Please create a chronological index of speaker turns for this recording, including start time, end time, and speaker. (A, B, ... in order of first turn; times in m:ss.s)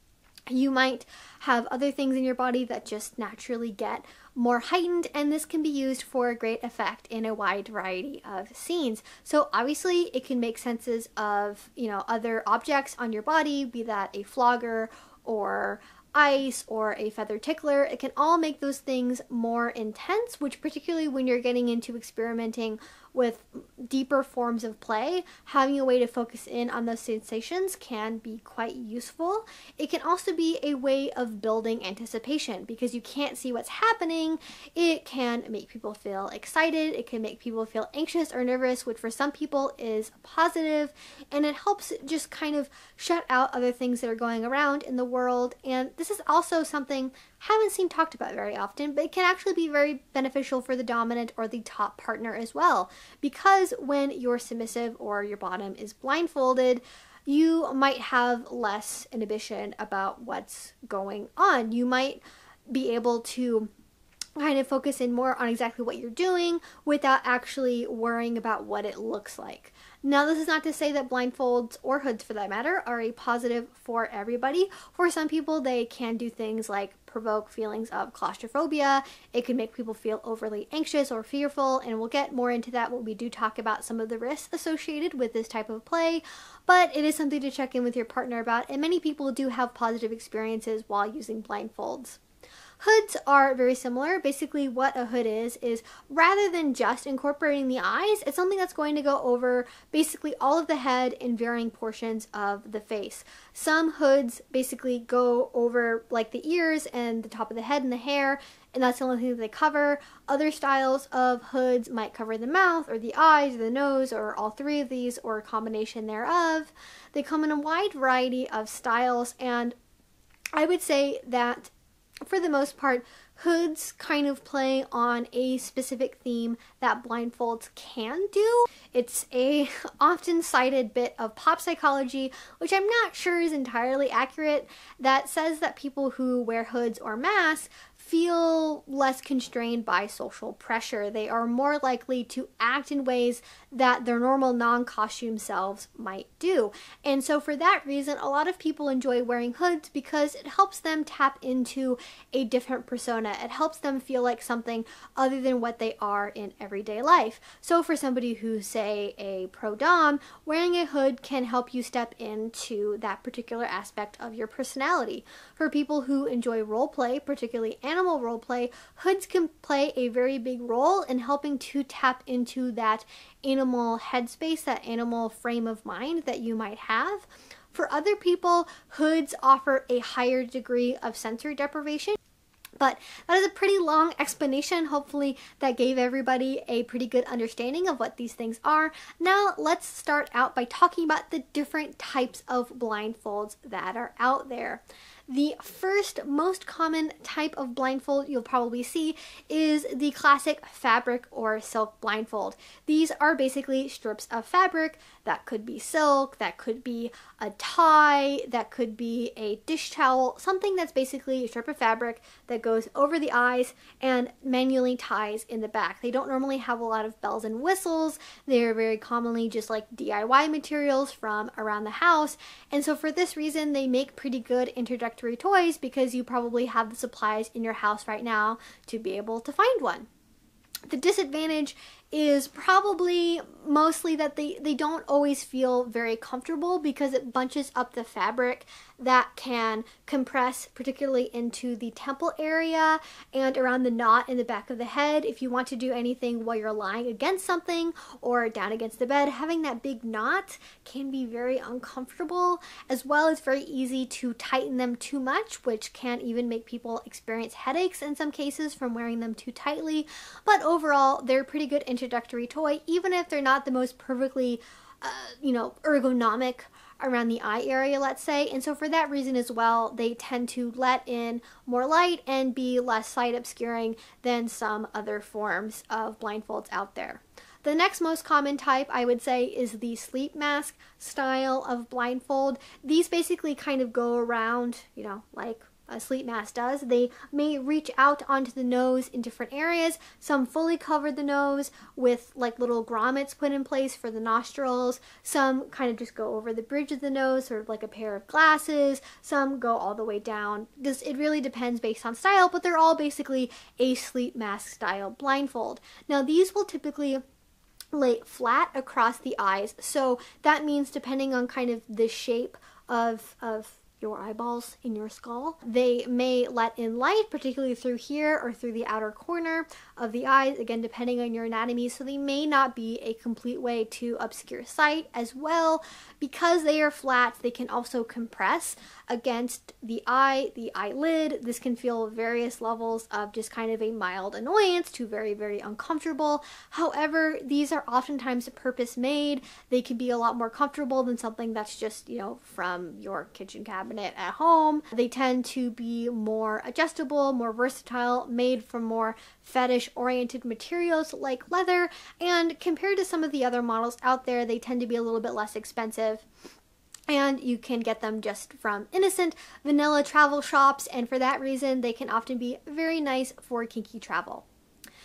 0:00.5-1:03.7 A
1:04.4-1:32.2 A
1:32.8-1:59.8 A
2:00.6-2:01.7 A
2:02.3-3:02.2 A
3:02.8-3:50.1 A
3:50.9-5:07.2 A
5:07.9-5:56.2 A
5:57.1-6:04.4 A